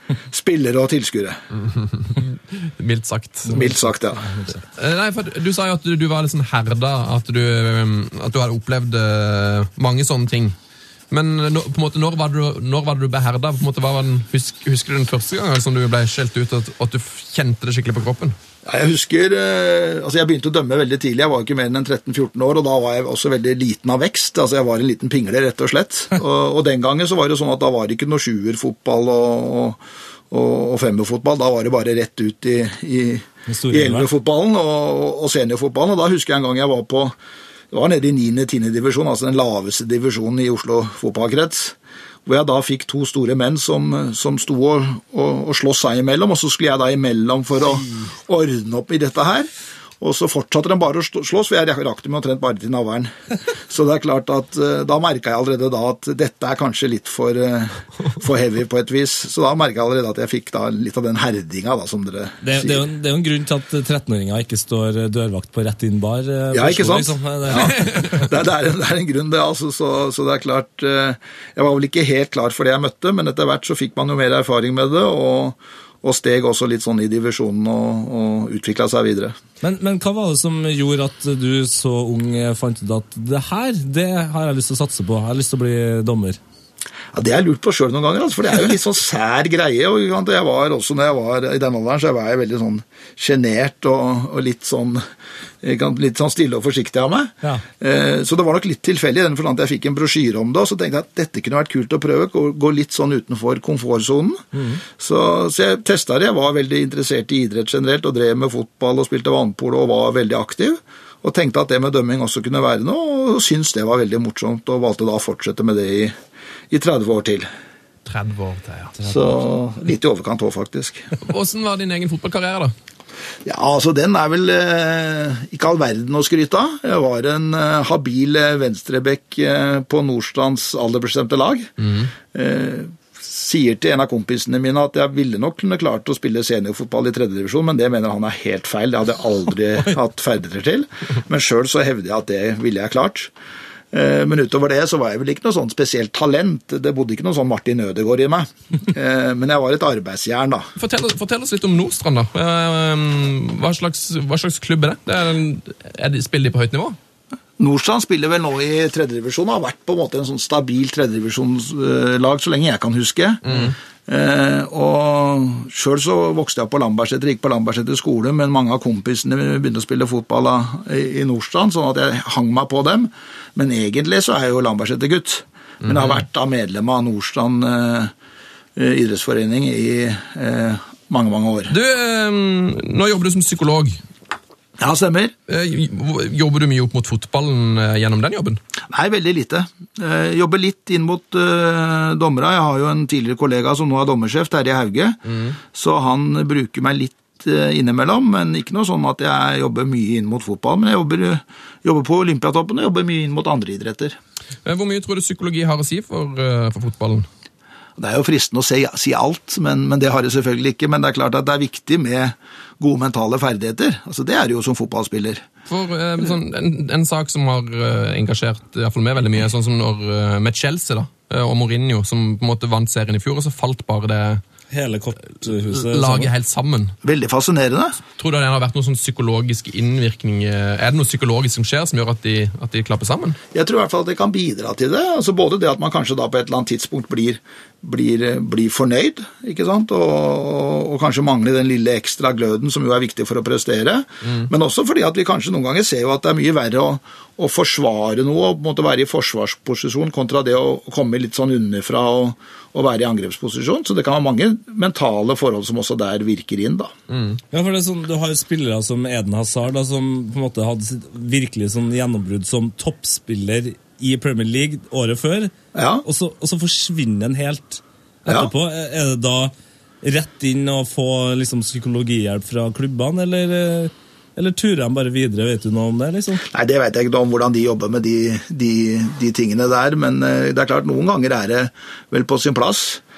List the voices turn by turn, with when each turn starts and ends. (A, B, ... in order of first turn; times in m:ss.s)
0:00.3-0:01.4 A
0:01.5-0:03.6 B
0:03.5-0:04.6 C
0:03.5-0:04.2 A
0:04.8-0:10.6 B
0:11.1-0:18.3 B
0:18.6-0:37.1 A
0:33.5-0:34.1 C
0:37.7-0:49.5 A
0:50.0-0:53.1 A
0:53.7-1:02.8 A
1:02.4-1:08.2 C
1:06.5-1:19.4 A
1:19.6-1:26.4 C
1:27.1-1:35.0 A
1:35.6-1:44.4 A
1:44.5-1:44.8 C
1:45.0-1:56.2 A
1:56.7-1:57.5 A
1:58.0-1:59.0 B
1:59.1-2:01.1 A
2:01.2-2:02.7 B
2:03.4-2:11.7 A
2:11.8-2:12.1 B
2:12.3-2:23.3 A
2:23.9-2:30.7 A
2:30.8-2:37.0 B
2:37.6-2:58.1 A
2:43.4-2:43.8 B
2:55.8-2:56.2 B
2:58.8-3:01.7 A
3:01.7-3:04.0 B
3:04.8-3:05.3 A
3:05.5-3:08.6 B
3:08.9-3:15.2 A
3:15.2-3:15.6 B
3:15.7-3:24.2 A
3:24.6-3:27.3 B
3:28.0-3:35.4 A
3:35.7-3:44.4 B
3:44.7-3:46.3 C
3:45.5-3:46.9 B
3:47.0-3:48.0 A
3:48.1-3:53.4 B
3:53.5-4:16.9 A
4:04.2-4:04.5 B
4:17.1-4:17.4 B
4:17.5-4:36.4 C
4:25.7-4:26.0 A
4:36.5-4:43.0 A